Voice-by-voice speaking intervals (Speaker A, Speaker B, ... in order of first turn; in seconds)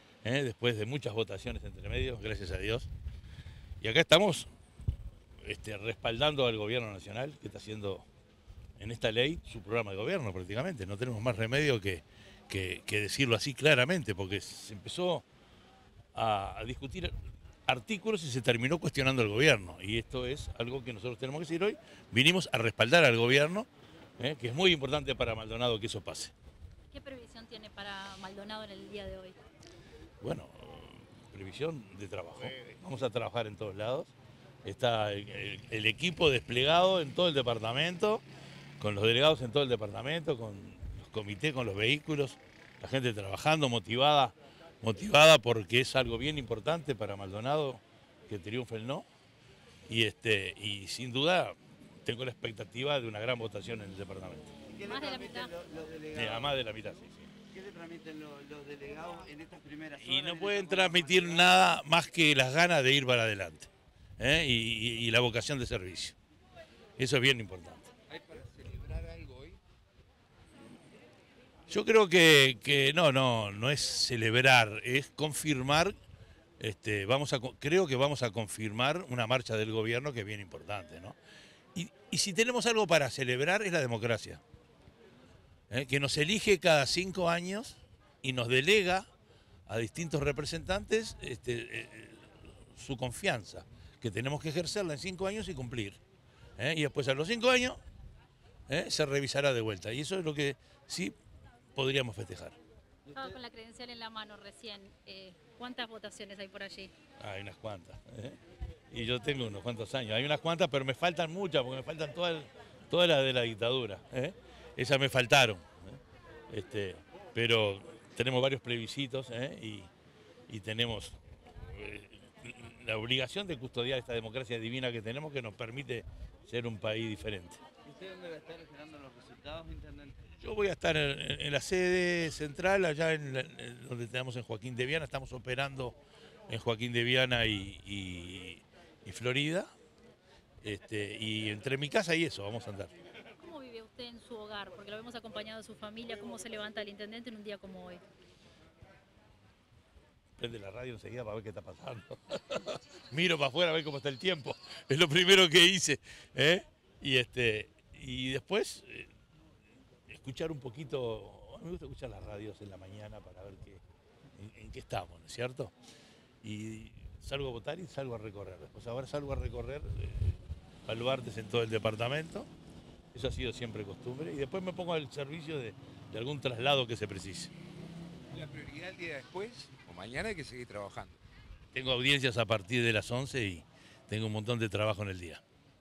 Speaker A: 0.2-2.9, 3.8-4.5, 5.4-8.1, 8.8-15.2, 16.1-17.1, 17.7-23.7, 24.2-26.3, 30.2-34.1, 34.6-38.2, 38.8-49.0, 49.9-54.5, 56.1-57.3, 60.0-66.2, 67.0-67.9, 71.7-76.0, 76.6-81.2, 81.8-84.4, 85.7-89.1, 89.7-96.0, 96.6-97.8, 98.7-101.2, 101.8-102.5, 107.2-108.4, 108.9-115.9, 116.5-119.9, 120.5-127.6, 130.3-136.0, 136.5-139.7, 140.6-142.9, 150.4-159.1, 160.1-163.8, 164.4-165.7, 166.4-172.5, 173.1-177.5, 181.7-185.4
Speaker B: 26.9-29.4, 54.8-55.5, 103.1-106.9, 143.4-148.0
Speaker C: 54.7-56.5, 57.5-61.4, 127.9-130.2
Speaker D: 68.1-69.6, 178.3-181.2